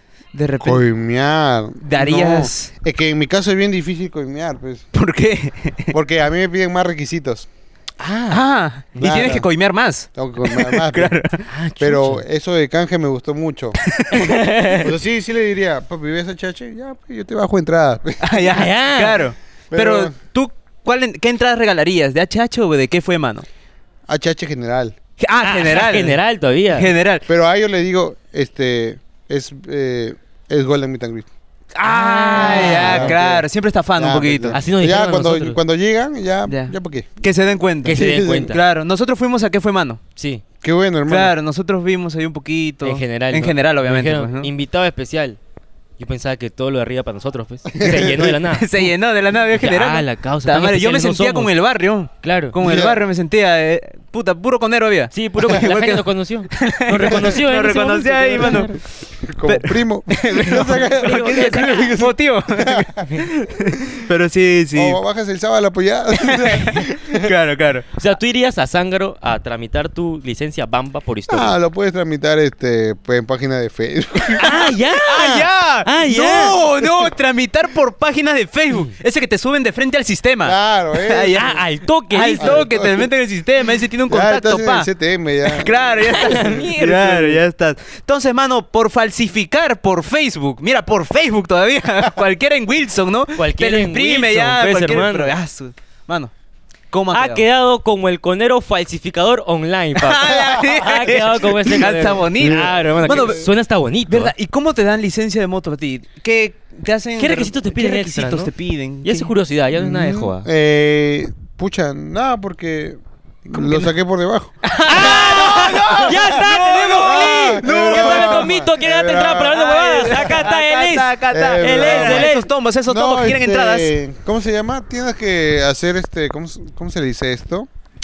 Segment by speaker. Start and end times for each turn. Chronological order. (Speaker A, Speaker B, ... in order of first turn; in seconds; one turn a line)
Speaker A: 0.3-0.8
Speaker B: 0.6-4.8
Speaker A: 1.8-2.7
Speaker A: 4.9-5.9
Speaker B: 5.9-7.5
Speaker C: 8.0-8.4
Speaker A: 8.3-11.4
Speaker B: 9.0-9.5
Speaker B: 10.1-11.2
Speaker C: 11.5-12.2
Speaker B: 11.8-13.8
Speaker A: 13.8-14.3
Speaker C: 14.1-14.9
Speaker B: 14.7-18.3
Speaker A: 18.2-23.5
Speaker C: 18.4-19.2
Speaker B: 19.7-20.1
Speaker B: 24.1-25.0
Speaker A: 25.2-26.2
Speaker C: 25.4-26.9
Speaker A: 26.7-27.2
Speaker B: 27.3-31.3
Speaker A: 31.8-34.6
Speaker C: 31.8-33.2
Speaker B: 32.3-37.2
Speaker C: 34.5-35.6
Speaker A: 36.5-40.0
Speaker C: 37.9-38.6
Speaker B: 37.9-38.6
Speaker C: 40.2-40.4
Speaker B: 40.6-41.4
Speaker A: 41.1-44.5
Speaker C: 42.8-45.4
Speaker C: 46.0-48.9
Speaker B: 47.7-48.4
Speaker A: 48.5-58.8
Speaker C: 49.5-51.5
Speaker C: 52.2-52.5
Speaker B: 52.6-53.0
Speaker C: 55.1-58.8
Speaker B: 59.2-63.0
Speaker A: 59.5-65.0
Speaker C: 60.8-62.0
Speaker B: 64.8-67.3
Speaker A: 66.2-67.9
Speaker C: 68.0-71.5
Speaker B: 71.3-74.5
Speaker C: 74.4-76.6
Speaker A: 74.4-84.9
Speaker B: 80.4-81.6
Speaker C: 81.3-82.7
Speaker B: 82.4-83.1
Speaker B: 84.1-86.1
Speaker A: 85.5-96.3
Speaker C: 86.1-87.4
Speaker C: 93.4-95.3
Speaker A: 96.9-97.4
Speaker C: 97.1-104.3
Speaker A: 100.0-103.5
Speaker B: 102.4-103.4
Speaker A: 104.1-109.3
Speaker C: 107.2-108.5
Speaker C: 109.0-110.5
Speaker B: 109.7-114.5
Speaker A: 113.5-113.9
Speaker A: 114.6-118.5
Speaker C: 114.8-122.5
Speaker B: 117.0-119.6
Speaker A: 119.5-123.9
Speaker B: 121.3-122.3
Speaker B: 122.9-127.7